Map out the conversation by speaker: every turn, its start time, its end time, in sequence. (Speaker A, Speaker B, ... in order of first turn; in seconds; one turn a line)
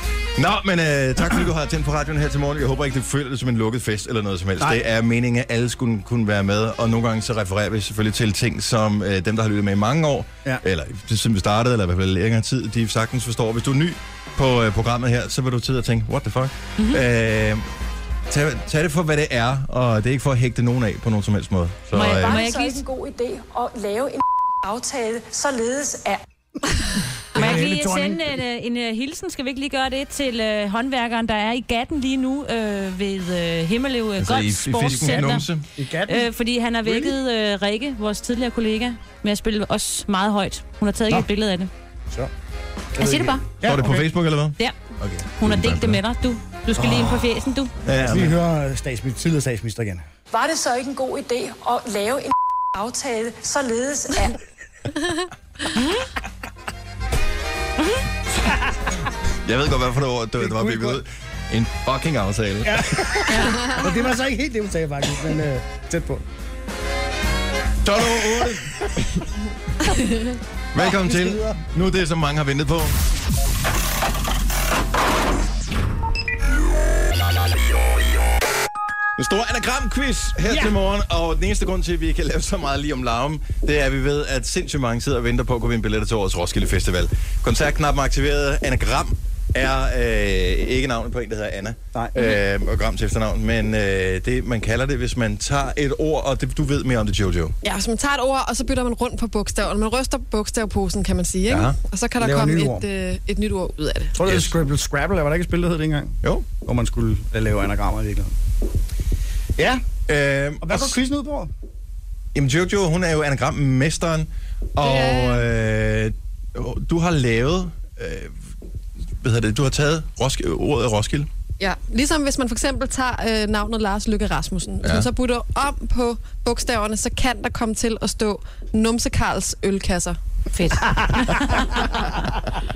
Speaker A: 0.3-17.7
Speaker A: 18.3-22.4
Speaker B: 21.9-22.9
Speaker C: 22.0-26.2
Speaker D: 27.3-28.4
Speaker B: 27.3-35.5
Speaker A: 34.2-35.7
Speaker D: 35.8-36.3
Speaker B: 36.1-41.7
Speaker D: 36.8-37.2
Speaker B: 43.0-43.5
Speaker D: 43.0-44.1
Speaker A: 43.6-46.0
Speaker B: 45.4-47.7
Speaker D: 46.8-47.2
Speaker A: 47.8-48.4
Speaker D: 48.0-50.0
Speaker C: 50.3-54.4
Speaker A: 59.5-63.4
Speaker D: 60.4-61.0
Speaker D: 62.6-66.2
Speaker A: 67.8-68.9
Speaker E: 69.8-70.3
Speaker A: 70.7-73.0
Speaker D: 70.8-71.6
Speaker A: 79.2-97.6
Speaker D: 80.5-80.7
Speaker E: 97.6-104.2
Speaker A: 101.5-101.8
Speaker D: 102.2-102.9
Speaker D: 104.2-108.3
Speaker A: 104.2-104.6
Speaker D: 109.6-109.8
Speaker A: 110.1-111.0
Speaker D: 110.6-111.5
Speaker A: 112.3-118.3
Speaker E: 114.8-115.5
Speaker A: 119.1-121.3
Speaker E: 121.6-130.2
Speaker A: 124.8-125.1
Speaker B: 130.6-131.6
Speaker D: 130.7-132.2